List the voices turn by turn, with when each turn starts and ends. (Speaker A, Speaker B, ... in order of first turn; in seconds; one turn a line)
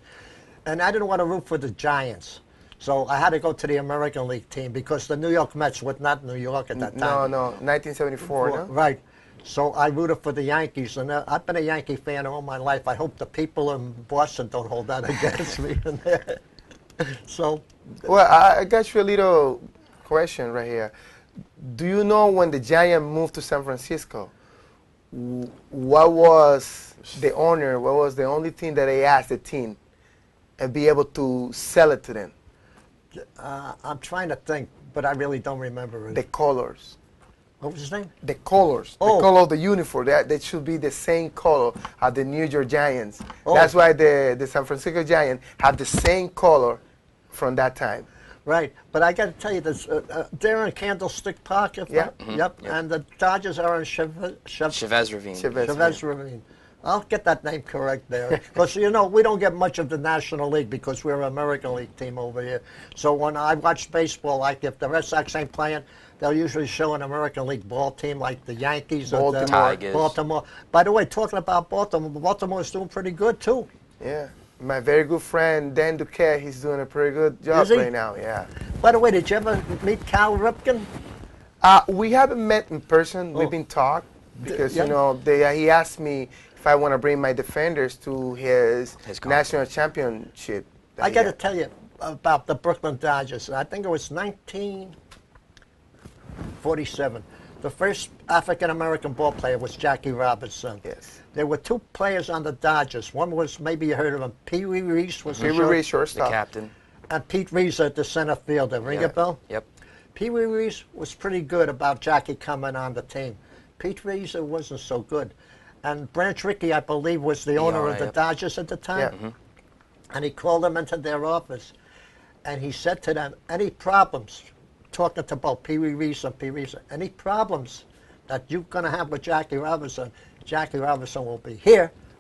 Speaker A: 0.7-7.3
Speaker B: 6.8-8.7
Speaker A: 8.2-16.4
Speaker A: 17.0-17.7
Speaker B: 18.0-20.9
Speaker B: 21.6-24.3
Speaker B: 25.1-29.8
Speaker B: 30.6-32.3
Speaker A: 33.1-36.2
Speaker B: 36.1-37.0
Speaker A: 37.6-38.1
Speaker B: 38.2-46.8
Speaker A: 39.0-39.3
Speaker A: 43.4-43.7
Speaker B: 47.3-48.1
Speaker A: 48.5-54.8
Speaker C: 52.2-52.7
Speaker C: 54.7-55.7
Speaker B: 55.3-56.0
Speaker A: 55.6-73.7
Speaker B: 69.1-69.8
Speaker C: 69.5-70.1
Speaker B: 74.0-78.5
Speaker A: 77.5-77.9
Speaker A: 78.8-80.9
Speaker B: 81.6-91.3
Speaker A: 84.4-84.9
Speaker C: 89.0-89.5
Speaker A: 91.0-94.9
Speaker A: 96.6-105.8
Speaker B: 100.8-101.1
Speaker B: 105.4-106.3
Speaker C: 106.1-106.7
Speaker A: 107.1-109.4
Speaker C: 108.9-109.7
Speaker A: 110.1-119.1
Speaker C: 117.5-118.1
Speaker A: 120.1-121.7
Speaker A: 122.4-131.9